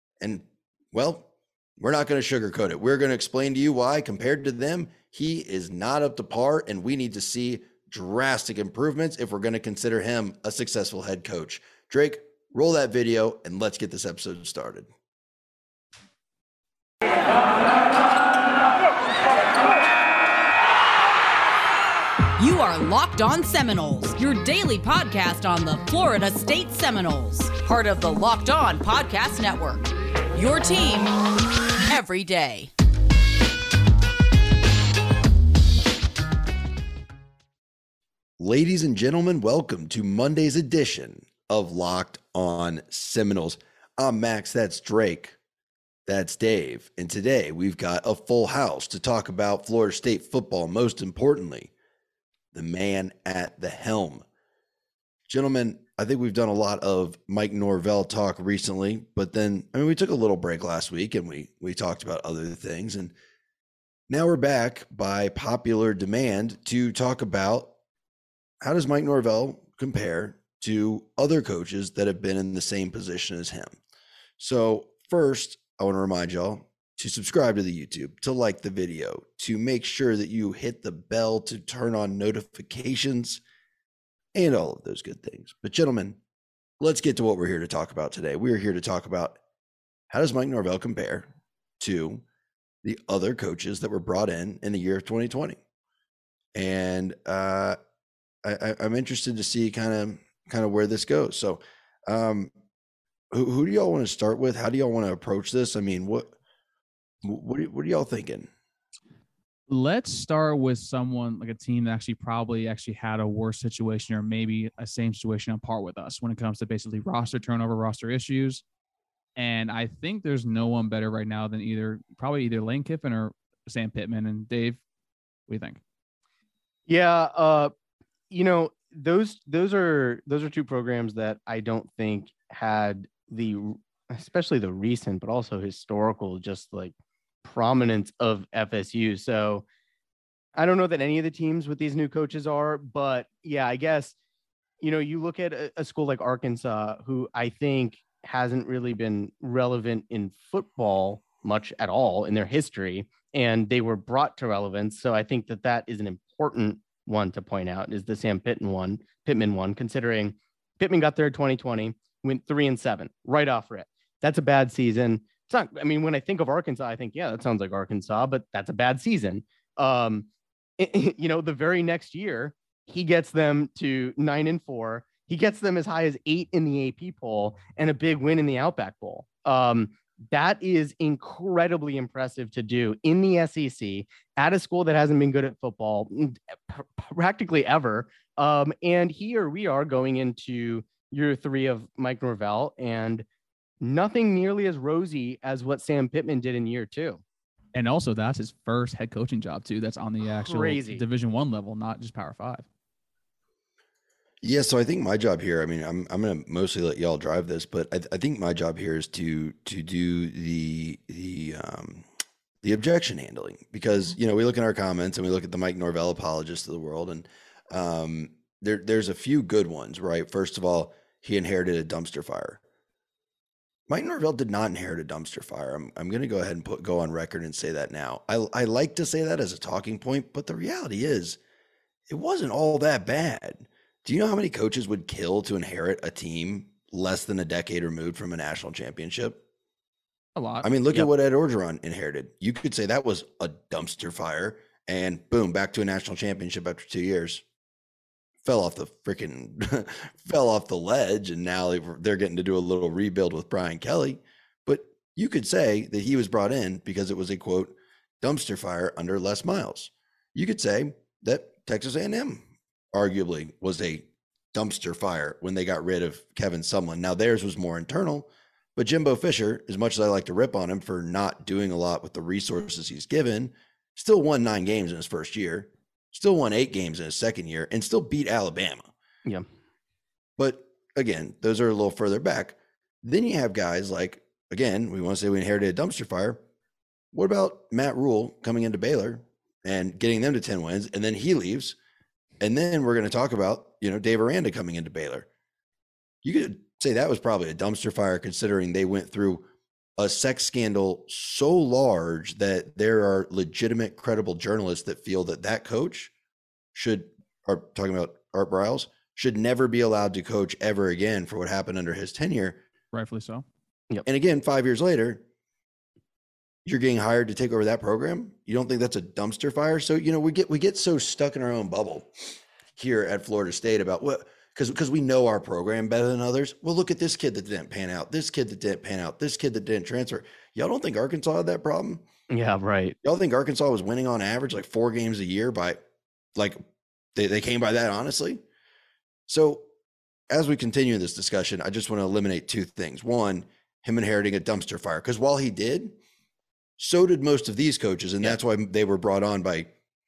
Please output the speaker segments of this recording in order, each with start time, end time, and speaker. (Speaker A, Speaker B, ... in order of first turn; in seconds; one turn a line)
Speaker A: 0.2-14.9
Speaker B: 22.4-31.2
Speaker B: 31.9-32.7
Speaker A: 38.4-45.4
Speaker A: 46.0-51.7
Speaker A: 52.5-54.2
Speaker A: 55.3-63.1
Speaker A: 64.1-67.7
Speaker A: 68.6-73.7
Speaker A: 74.4-83.4
Speaker A: 84.3-86.2
Speaker A: 86.8-89.4
Speaker A: 90.1-91.3
Speaker A: 91.8-92.2
Speaker A: 92.8-95.6
Speaker A: 96.5-97.8
Speaker A: 98.4-102.5
Speaker A: 103.3-106.3
Speaker A: 107.2-108.5
Speaker C: 109.7-118.6
Speaker C: 119.3-124.8
Speaker C: 125.5-125.8
Speaker D: 126.9-127.7
Speaker D: 128.3-136.9
Speaker D: 137.4-139.7
Speaker D: 140.6-144.1
Speaker D: 144.8-193.2
Speaker D: 193.8-197.2
Speaker C: 197.7-202.6
Speaker D: 200.2-201.0
Speaker A: 204.4-212.1
Speaker A: 212.6-222.6
Speaker A: 223.9-231.4
Speaker A: 232.1-239.4
Speaker C: 240.3-240.7
Speaker A: 240.6-247.4
Speaker A: 248.4-278.9
Speaker A: 280.4-286.4
Speaker A: 287.1-291.8
Speaker A: 292.4-295.3
Speaker A: 296.2-306.1
Speaker A: 306.7-312.6
Speaker C: 312.9-313.4
Speaker A: 314.0-315.2
Speaker A: 316.6-332.0
Speaker D: 332.3-332.9
Speaker A: 333.0-335.8
Speaker A: 336.3-338.4
Speaker A: 339.3-339.7
Speaker A: 340.3-345.9
Speaker A: 346.8-349.7